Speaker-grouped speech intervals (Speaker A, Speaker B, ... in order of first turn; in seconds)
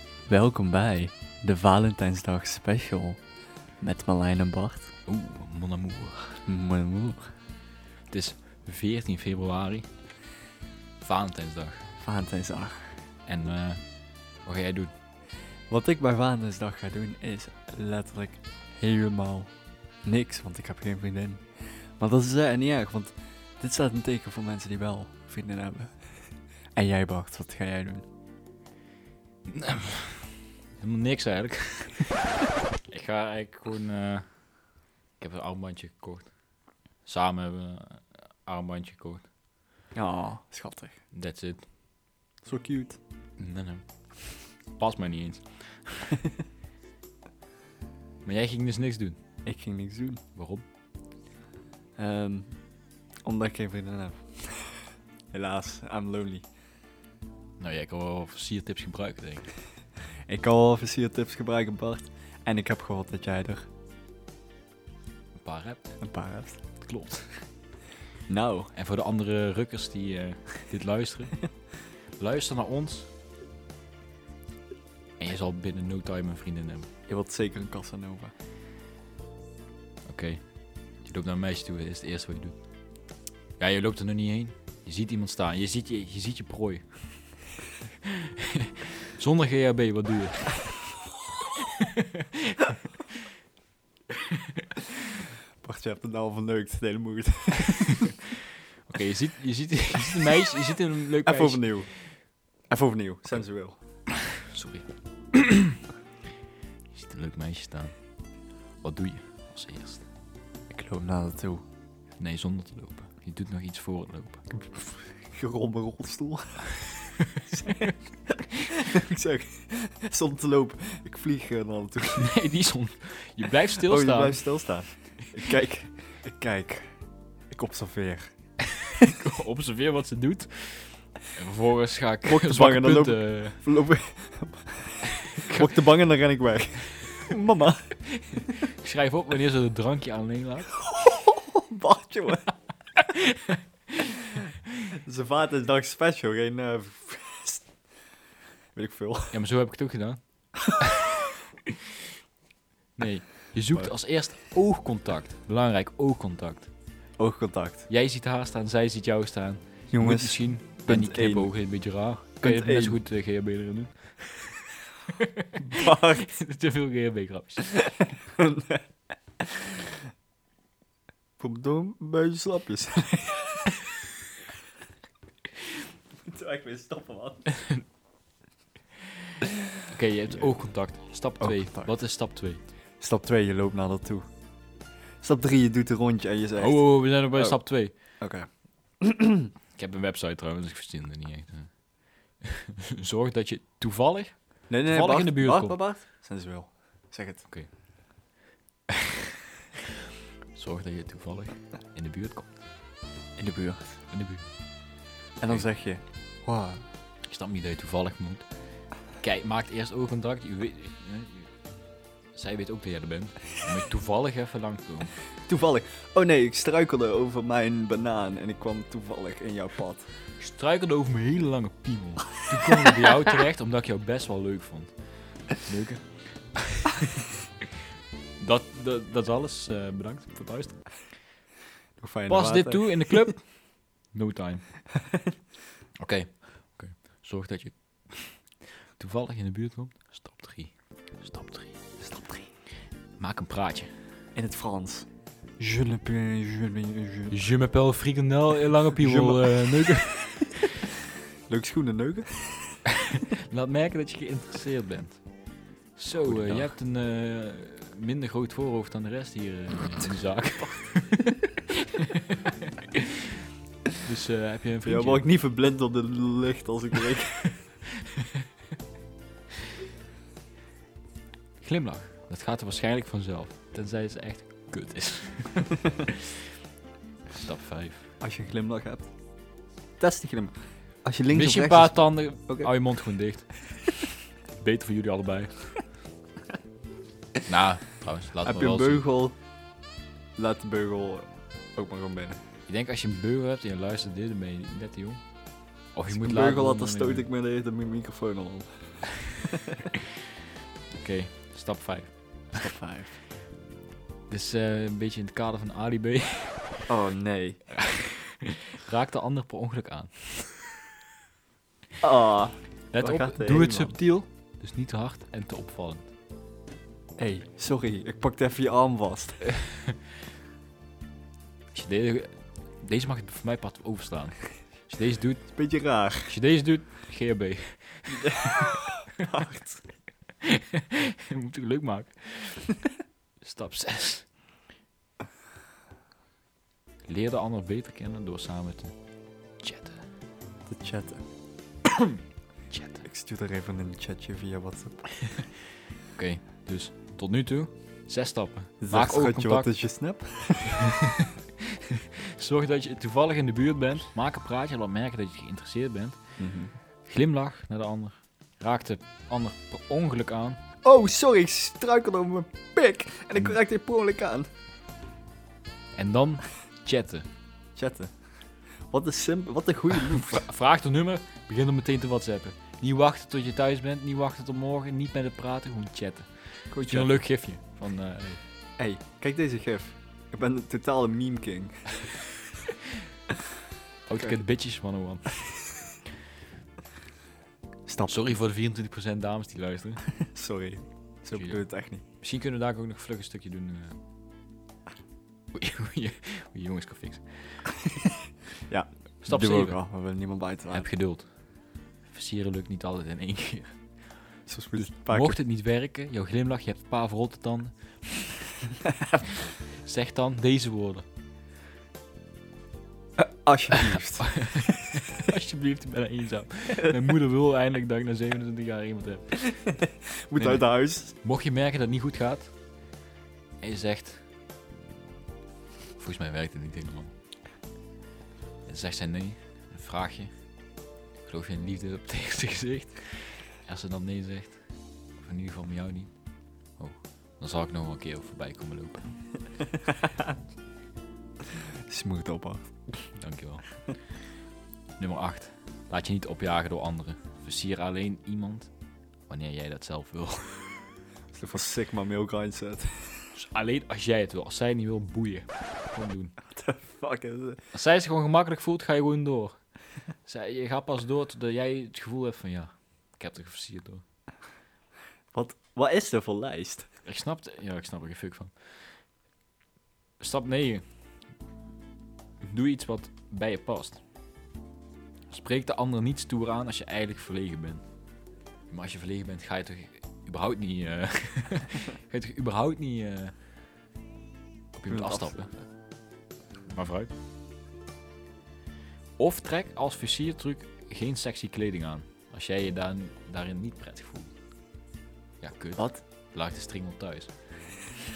Speaker A: 0.2-3.2, 3.8-4.9, 6.5-7.3, 12.0-13.0, 15.7-19.5, 20.0-28.0, 39.9-41.0, 42.4-43.0, 49.4-50.2, 52.0-52.5, 53.2-56.4, 60.3-63.7, 66.0-66.6, 68.3-68.7, 77.1-78.3, 95.6-98.2, 101.2-102.0, 102.6-103.8, 110.7-111.6, 114.7-122.3, 123.8-126.9, 127.5-128.2, 132.2-138.0, 140.8-142.5, 145.0-147.8, 148.7-149.4, 153.6-153.9, 157.2-157.9, 159.9-161.6, 162.4-163.0, 165.6-166.3, 168.3-168.8, 169.4-169.7, 171.4-173.8, 176.3-177.5, 181.4-181.9, 183.0-184.2, 185.2-187.6, 188.2-188.5, 189.0-189.5, 194.7-197.5, 203.4-204.0, 205.4-206.8, 215.4-220.1, 232.0-233.4, 234.9-235.3, 242.0-242.5, 244.3-247.4, 249.0-250.4, 251.5-252.8, 256.2-256.6, 264.8-267.6, 278.2-279.1, 280.0-282.7, 288.4-289.4, 290.4-292.4, 296.1-299.4, 302.5-303.2, 306.9-307.8, 312.0-313.9, 317.2-319.6, 325.5-326.4, 328.1-329.9, 340.6-341.2, 343.0-345.1, 348.8-350.9, 356.4-356.7, 360.8-364.5, 367.7-368.1, 368.9-370.5, 376.7-377.1, 378.8-382.1, 387.9-388.4, 390.2-392.0, 398.7-400.9, 404.5-405.4, 413.2-414.6, 419.6-421.1, 441.9-442.9, 451.3-453.3, 456.4-457.6, 465.3-466.9, 484.9-485.6, 495.8-496.0
Speaker B: 5.1-6.5, 8.1-9.9, 11.0-11.9, 13.2-14.9, 29.5-32.3, 32.9-34.6, 35.2-36.3, 37.0-39.3, 41.1-41.7, 43.4-46.2, 48.2-49.2, 50.4-50.6, 57.6-59.5, 65.3-66.0, 66.8-67.5, 68.7-71.5, 72.2-73.1, 75.2-76.9, 80.0-82.5, 83.6-87.4, 88.0-90.9, 91.6-93.2, 94.1-94.7, 98.8-102.2, 104.1-105.8, 106.9-108.0, 108.8-110.1, 112.2-114.5, 117.3-117.9, 122.1-125.3, 128.6-133.7, 135.1-135.9, 138.1-140.8, 142.9-144.2, 149.3-151.1, 152.9-156.7, 157.9-168.0, 177.6-177.8, 179.3-182.6, 186.6-188.2, 189.7-195.9, 200.5-202.6, 204.1-204.5, 205.5-205.7, 207.2-208.4, 209.1-211.5, 212.3-215.2, 220.4-227.1, 228.4-231.2, 232.3-234.8, 236.0-241.8, 243.2-243.9, 247.3-250.8, 252.8-263.1, 264.0-265.3, 267.6-268.4, 271.6-276.3, 277.3-278.1, 281.3-283.7, 284.6-285.8, 287.5-289.0, 292.7-297.3, 300.9-302.7, 304.3-306.9, 307.7-310.6, 312.9-316.1, 319.5-319.9, 321.7-325.7, 326.2-328.9, 330.4-332.9, 333.4-334.3, 337.1-338.9, 339.6-340.0, 342.7-343.0, 346.1-349.7, 350.8-356.2, 357.1-360.6, 365.9-367.2, 370.1-378.4, 384.1-385.7, 388.1-390.1, 391.3-391.6, 392.2-394.0, 395.5-397.7, 399.2-399.9, 400.7-401.3, 402.1-404.2, 404.7-408.4, 409.2-411.0, 413.7-419.7, 420.4-422.5, 423.6-424.2, 425.9-427.1, 428.6-430.3, 431.2-434.6, 435.2-436.1, 436.8-439.4, 443.2-443.9, 445.0-448.7, 449.3-450.9, 453.3-456.4, 457.7-459.6, 460.2-464.0, 467.1-469.0, 470.2-470.8, 472.4-474.0, 475.3-477.8, 478.7-483.3, 484.7-485.5, 486.7-487.1, 489.2-494.3, 495.4-497.3